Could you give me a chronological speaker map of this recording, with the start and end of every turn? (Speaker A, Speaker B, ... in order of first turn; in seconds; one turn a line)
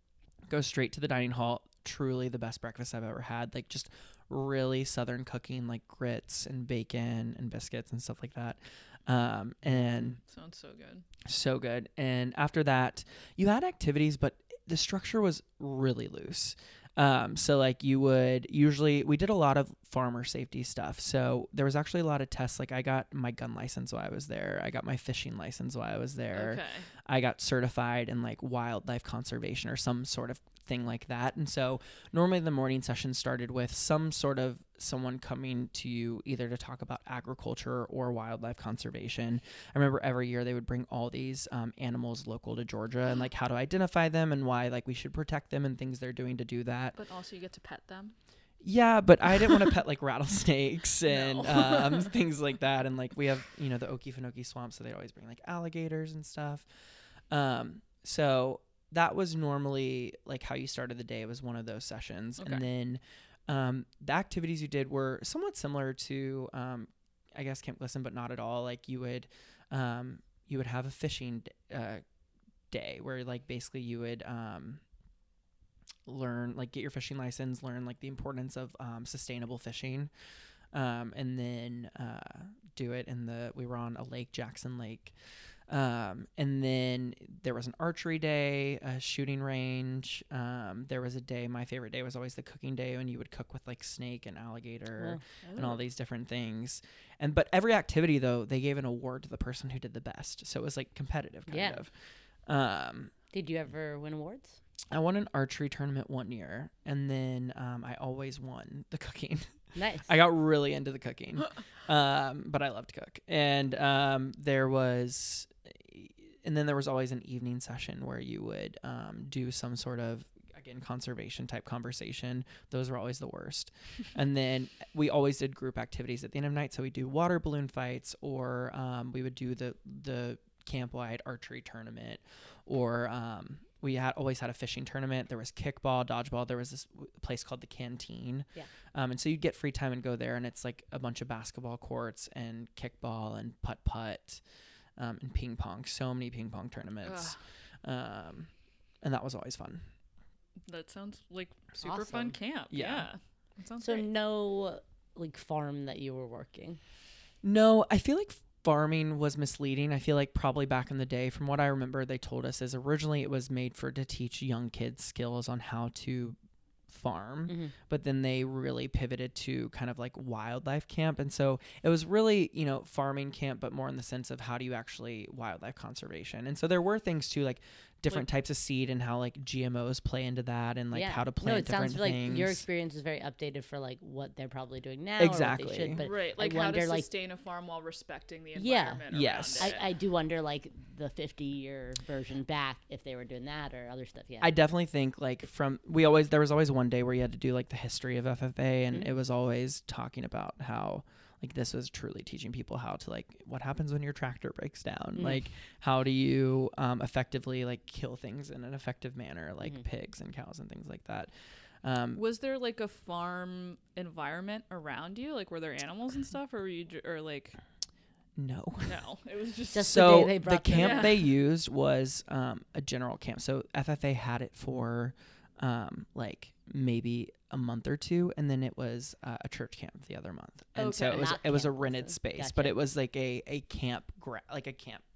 Speaker A: 0.5-10.2
Speaker B: 10.1-11.0
Speaker A: 11.2-47.0
Speaker B: 26.3-26.9
Speaker B: 46.9-48.1
Speaker A: 48.6-56.6
Speaker B: 51.0-52.1
Speaker A: 57.3-72.0
Speaker B: 62.4-62.6
Speaker A: 72.7-74.8
Speaker A: 76.0-80.1
Speaker A: 80.7-85.1
Speaker A: 85.7-101.9
Speaker B: 95.4-95.8
Speaker C: 101.5-101.8
Speaker A: 102.5-103.2
Speaker C: 103.3-104.6
Speaker A: 104.9-144.4
Speaker C: 109.8-110.2
Speaker A: 145.0-148.5
Speaker B: 147.0-147.4
Speaker A: 149.0-149.8
Speaker B: 150.7-154.1
Speaker C: 151.8-152.4
Speaker A: 152.7-153.1
Speaker C: 153.8-156.8
Speaker A: 157.4-166.4
Speaker A: 166.9-182.6
Speaker C: 167.5-167.8
Speaker C: 180.9-187.1
Speaker A: 185.2-186.1
Speaker B: 186.0-189.9
Speaker C: 188.5-189.0
Speaker A: 189.1-189.8
Speaker C: 189.6-194.6
Speaker A: 194.4-211.3
Speaker C: 205.2-205.4
Speaker A: 211.8-212.2
Speaker B: 212.1-217.6
Speaker A: 218.3-219.0
Speaker B: 218.8-220.1
Speaker C: 219.7-221.2
Speaker A: 219.8-235.0
Speaker B: 220.7-221.1
Speaker B: 230.8-231.4
Speaker C: 231.1-232.8